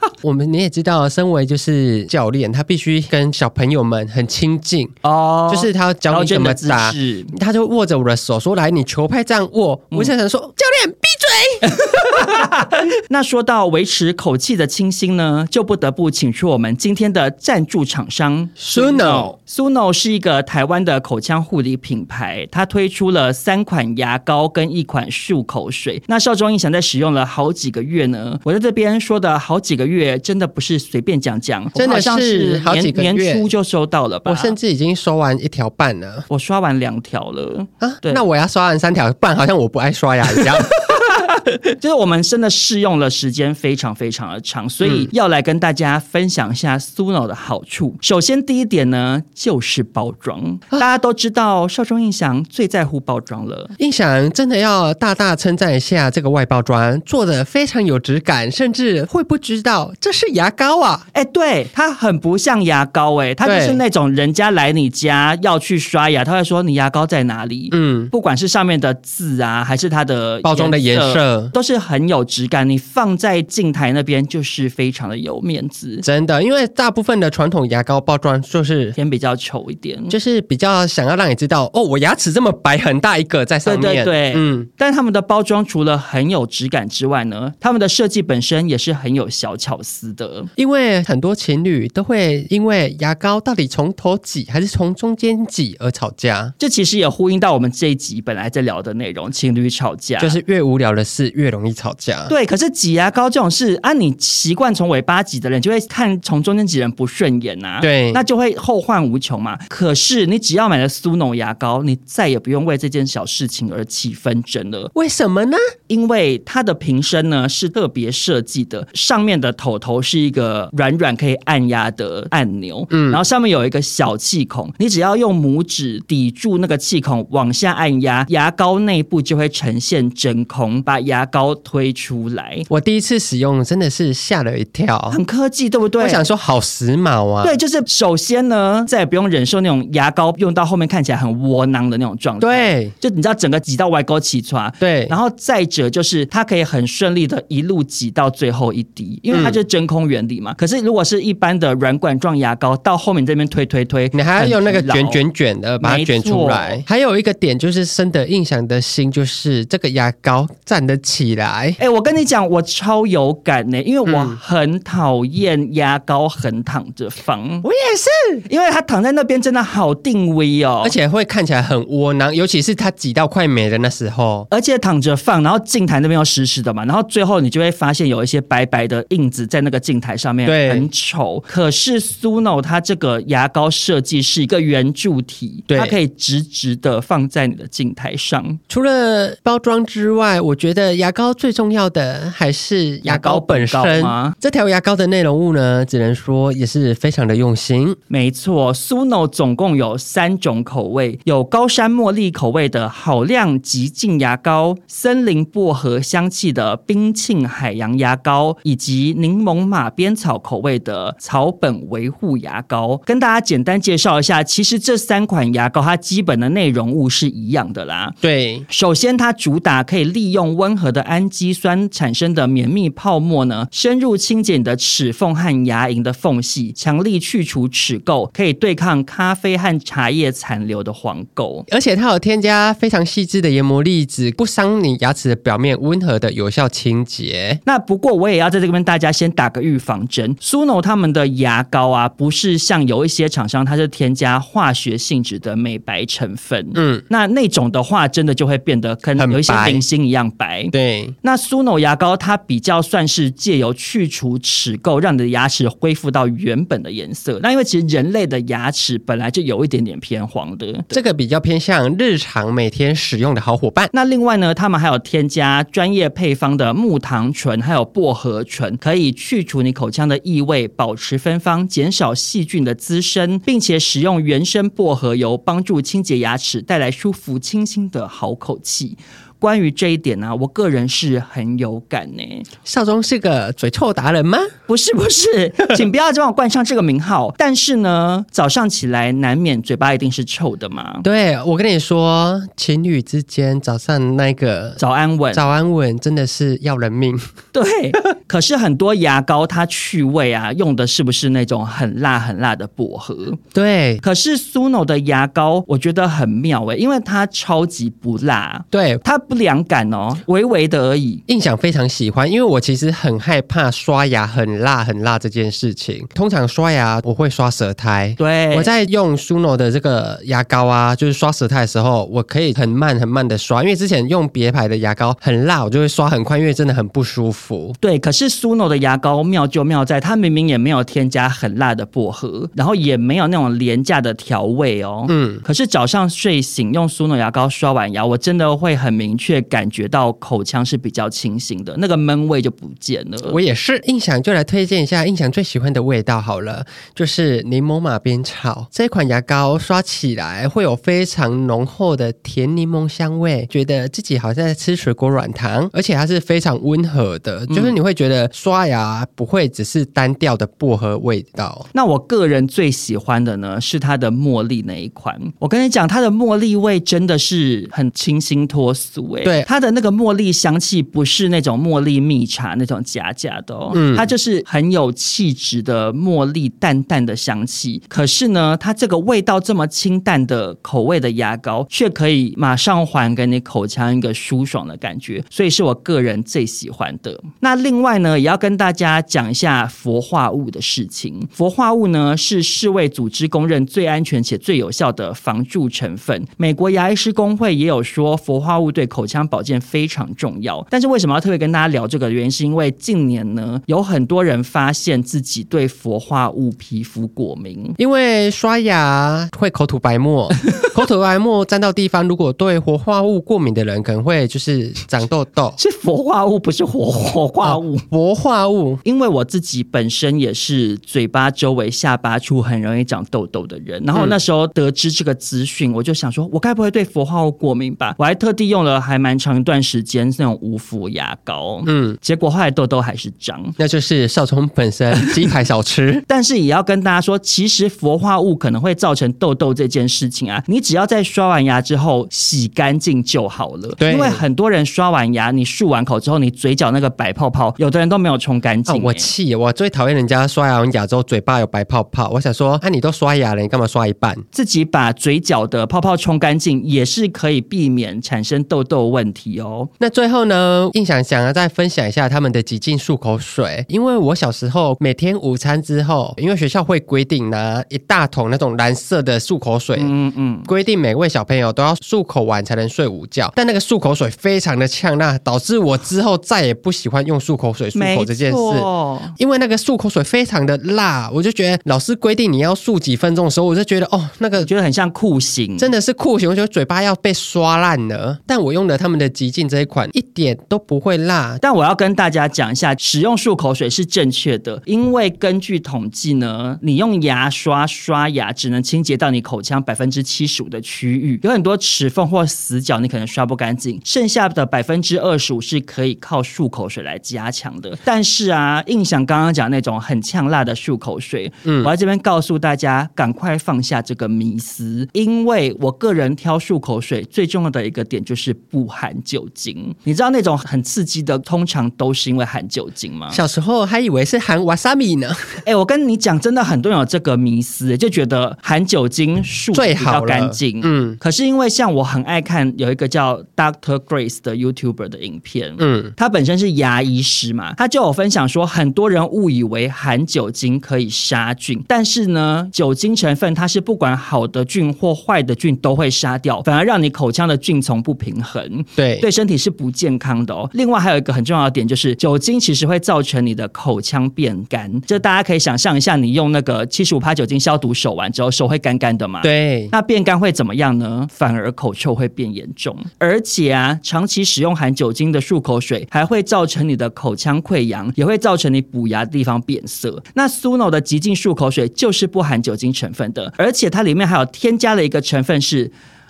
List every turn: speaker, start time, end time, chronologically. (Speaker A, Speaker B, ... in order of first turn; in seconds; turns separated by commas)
Speaker A: 0.2-4.9, Speaker B: 5.0-7.3, Speaker A: 5.5-12.4, Speaker B: 11.7-34.5, Speaker A: 18.6-19.3, Speaker A: 31.7-33.5, Speaker A: 34.2-36.3, Speaker B: 36.3-38.2, Speaker A: 37.8-40.7, Speaker B: 40.9-53.7, Speaker A: 44.8-45.1, Speaker A: 53.8-61.0, Speaker B: 61.1-76.0, Speaker A: 63.4-63.8, Speaker A: 67.7-68.1, Speaker A: 70.4-71.5, Speaker A: 76.0-79.0, Speaker B: 79.0-80.1, Speaker A: 80.1-84.7, Speaker B: 83.6-90.5, Speaker A: 90.6-96.5, Speaker B: 96.6-100.4, Speaker A: 100.2-102.3, Speaker B: 102.3-114.9, Speaker A: 107.8-108.2, Speaker A: 114.9-115.6, Speaker B: 115.9-132.7, Speaker A: 122.9-123.2, Speaker A: 132.7-135.2, Speaker B: 135.1-136.2, Speaker A: 136.0-137.6, Speaker B: 137.4-155.2, Speaker A: 142.4-142.9, Speaker A: 144.8-145.1, Speaker A: 149.3-149.6, Speaker A: 154.1-161.8, Speaker B: 155.8-156.8, Speaker B: 161.8-167.6, Speaker A: 164.1-164.4, Speaker A: 167.6-168.4, Speaker B: 168.5-170.9, Speaker A: 170.8-174.5, Speaker B: 174.5-188.6, Speaker A: 180.4-180.9, Speaker A: 185.7-185.9, Speaker A: 188.7-198.0, Speaker B: 193.0-194.3, Speaker B: 198.1-218.2, Speaker A: 218.2-218.7, Speaker B: 218.7-231.7, Speaker A: 231.7-237.6, Speaker B: 237.7-260.9, Speaker A: 246.7-247.0, Speaker A: 249.2-249.8, Speaker A: 250.7-251.1, Speaker A: 260.9-263.9, Speaker B: 263.9-282.5, Speaker A: 282.6-284.5, Speaker B: 284.7-291.0, Speaker A: 291.0-294.8, Speaker B: 294.8-295.4, Speaker A: 295.3-297.2, Speaker B: 297.5-303.4, Speaker A: 303.5-304.0, Speaker B: 304.0-311.2, Speaker A: 308.7-309.0, Speaker A: 311.3-327.8, Speaker B: 318.2-318.7, Speaker B: 327.8-343.4, Speaker A: 335.1-335.4, Speaker A: 343.3-361.6, Speaker B: 357.5-357.7, Speaker B: 361.7-407.8, Speaker A: 373.7-374.1, Speaker A: 407.8-415.6, Speaker B: 415.6-417.9, Speaker A: 417.4-418.8, Speaker B: 418.8-433.6, Speaker A: 431.6-432.0, Speaker A: 433.6-436.0, Speaker B: 436.1-449.1, Speaker A: 443.8-444.2, Speaker A: 448.7-454.2, Speaker B: 454.3-459.7, Speaker A: 459.8-469.9, Speaker B: 469.8-470.5, Speaker A: 470.4-484.5, Speaker B: 477.7-479.1, Speaker B: 484.4-485.7, Speaker A: 485.6-491.4, Speaker B: 491.4-523.2, Speaker A: 511.4-511.7, Speaker A: 523.1-525.4, Speaker B: 525.4-575.7, Speaker A: 529.5-531.0, Speaker A: 535.6-535.9, Speaker A: 548.8-549.0, Speaker A: 559.2-559.7